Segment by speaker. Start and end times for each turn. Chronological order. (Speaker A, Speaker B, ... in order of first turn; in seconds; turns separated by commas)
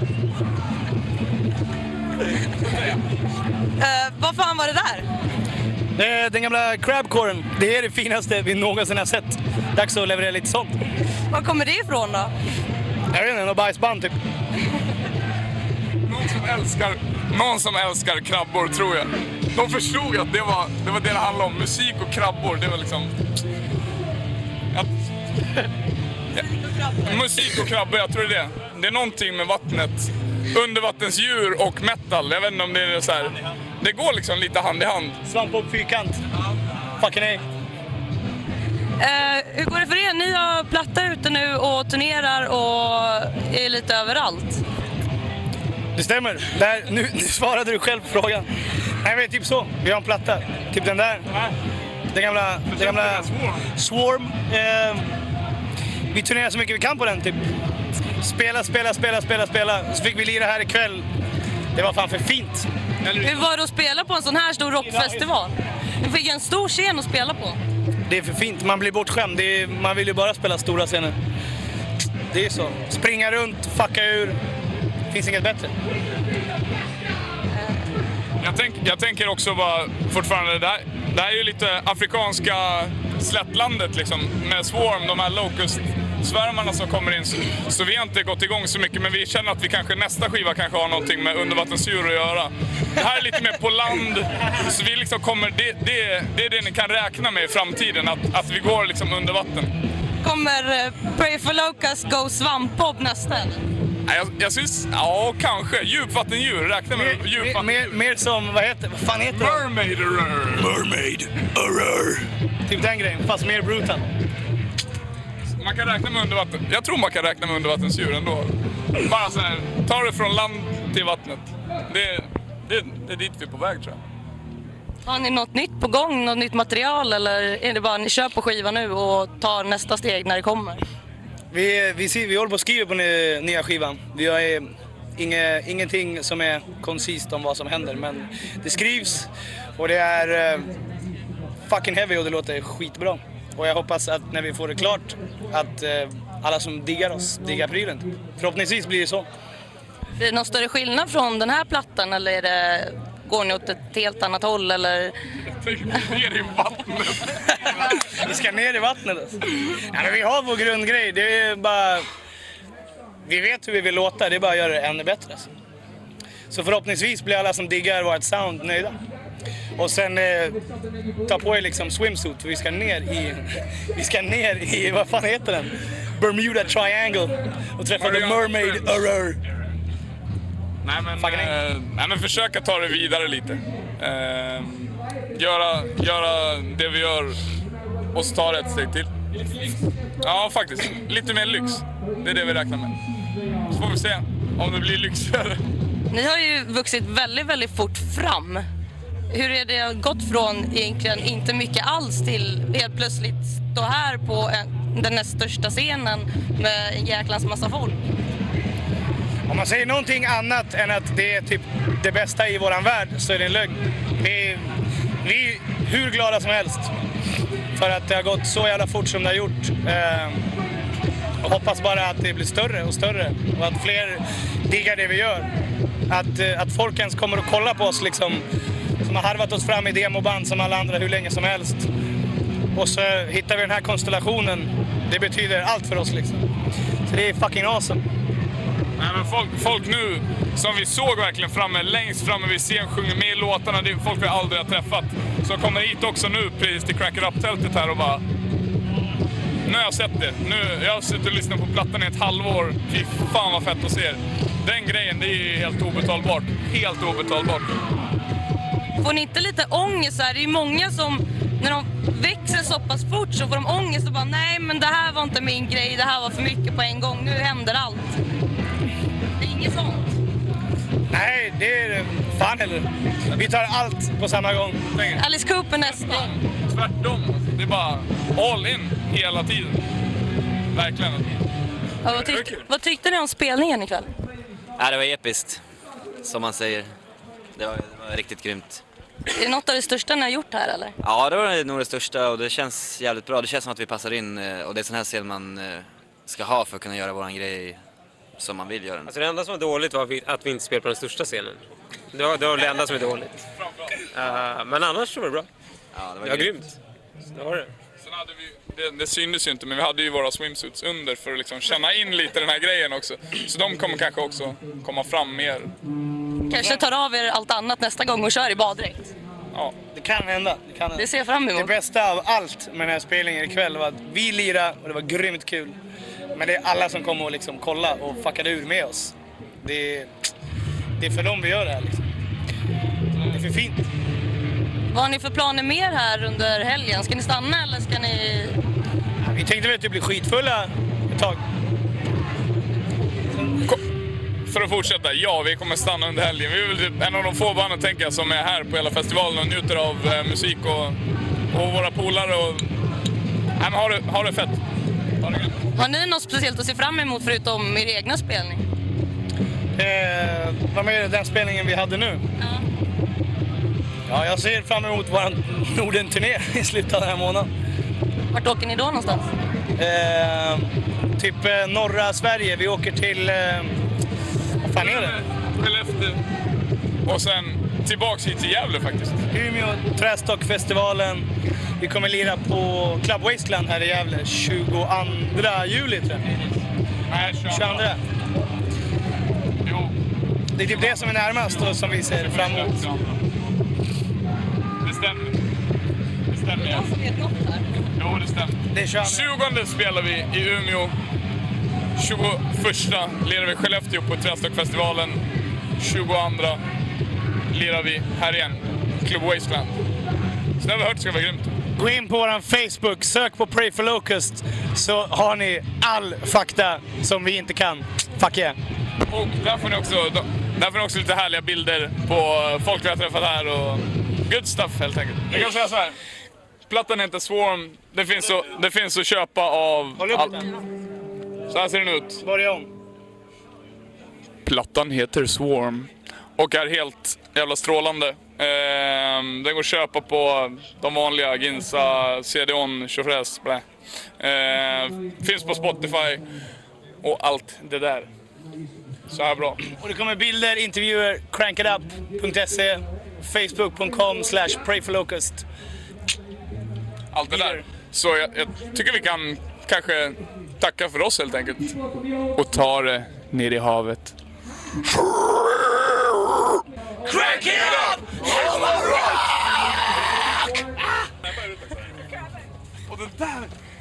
Speaker A: 3.8-5.1, Speaker B: 6.0-10.7, Speaker A: 11.3-12.3, Speaker B: 13.1-14.2, Speaker C: 16.1-23.1, Speaker C: 26.4-35.2, Speaker B: 35.3-36.2, Speaker B: 37.0-37.4, Speaker A: 39.0-44.6, Speaker B: 46.0-48.5, Speaker B: 49.0-51.3, Speaker B: 52.1-55.0, Speaker C: 52.7-53.7, Speaker B: 56.1-57.4, Speaker B: 58.2-61.0, Speaker B: 61.7-63.5, Speaker A: 63.2-67.6, Speaker B: 64.8-65.2, Speaker B: 68.1-71.1, Speaker B: 72.3-74.4, Speaker B: 75.1-75.7, Speaker C: 78.4-99.7, Speaker A: 100.2-103.6, Speaker C: 104.0-108.0, Speaker B: 106.9-109.7, Speaker C: 109.3-110.7, Speaker B: 110.6-114.0, Speaker C: 115.6-124.0, Speaker A: 125.0-130.8, Speaker B: 131.5-140.7, Speaker B: 141.7-149.3, Speaker A: 150.2-155.2, Speaker C: 155.5-158.1, Speaker B: 157.9-162.1, Speaker B: 163.2-165.5, Speaker B: 166.5-169.0, Speaker B: 169.8-170.6, Speaker B: 171.2-179.4, Speaker C: 178.0-179.0, Speaker C: 180.8-187.4, Speaker B: 181.2-181.6, Speaker C: 188.1-189.1, Speaker C: 190.2-193.0, Speaker C: 193.7-195.6, Speaker A: 196.1-198.7, Speaker A: 199.3-208.0, Speaker B: 209.5-214.6, Speaker B: 215.2-216.9, Speaker B: 217.8-220.4, Speaker B: 221.4-225.5, Speaker B: 226.1-228.4, Speaker B: 229.0-231.9, Speaker B: 232.8-236.4, Speaker B: 237.1-238.0, Speaker C: 239.0-248.2, Speaker C: 249.7-257.7, Speaker A: 259.0-268.2, Speaker A: 269.4-270.2, Speaker B: 271.1-274.8, Speaker C: 274.9-275.2, Speaker A: 275.1-276.3, Speaker C: 275.9-279.8, Speaker C: 280.7-281.4, Speaker A: 282.0-284.1, Speaker C: 282.1-282.5, Speaker D: 284.8-285.6, Speaker D: 286.2-286.9, Speaker D: 287.6-288.8, Speaker A: 289.3-291.0, Speaker D: 291.0-297.8, Speaker D: 298.4-299.1, Speaker E: 299.1-303.4, Speaker C: 303.6-304.0, Speaker E: 304.1-305.5, Speaker D: 305.9-306.8, Speaker E: 306.2-306.7, Speaker E: 307.3-307.7, Speaker C: 308.0-315.7, Speaker A: 316.5-319.1, Speaker B: 316.5-316.8, Speaker B: 319.9-325.8, Speaker A: 321.0-321.7, Speaker B: 326.3-330.1, Speaker B: 331.0-332.0, Speaker B: 333.3-333.9, Speaker A: 334.9-338.6, Speaker B: 339.3-341.4, Speaker C: 344.5-351.0, Speaker C: 351.5-352.7, Speaker C: 353.6-354.6, Speaker C: 355.2-355.6, Speaker A: 355.8-358.6, Speaker B: 359.8-362.2, Speaker A: 362.4-362.6, Speaker B: 364.1-367.5, Speaker A: 368.3-369.3, Speaker B: 369.8-373.8, Speaker B: 374.6-375.2, Speaker C: 374.8-376.2, Speaker C: 377.1-379.2, Speaker B: 379.3-381.3, Speaker B: 381.8-386.2, Speaker C: 387.1-387.9, Speaker B: 387.5-388.0, Speaker C: 389.6-389.9, Speaker B: 390.6-392.8, Speaker C: 390.6-393.1, Speaker C: 394.8-395.4, Speaker C: 396.3-396.9, Speaker A: 396.6-397.7, Speaker C: 398.0-400.9, Speaker B: 398.7-399.3, Speaker C: 402.0-405.2, Speaker C: 405.8-406.6, Speaker C: 407.5-409.8, Speaker C: 410.6-411.5, Speaker B: 411.8-418.6, Speaker C: 419.1-426.0, Speaker C: 426.7-430.4, Speaker B: 430.0-430.5, Speaker C: 431.5-432.2, Speaker B: 432.2-432.7, Speaker C: 434.4-443.6, Speaker C: 444.2-446.2, Speaker C: 447.0-448.1, Speaker C: 449.1-449.6, Speaker B: 449.7-455.4, Speaker C: 457.1-461.7, Speaker B: 457.3-457.6, Speaker C: 462.4-464.1, Speaker C: 467.1-469.3, Speaker C: 472.9-473.5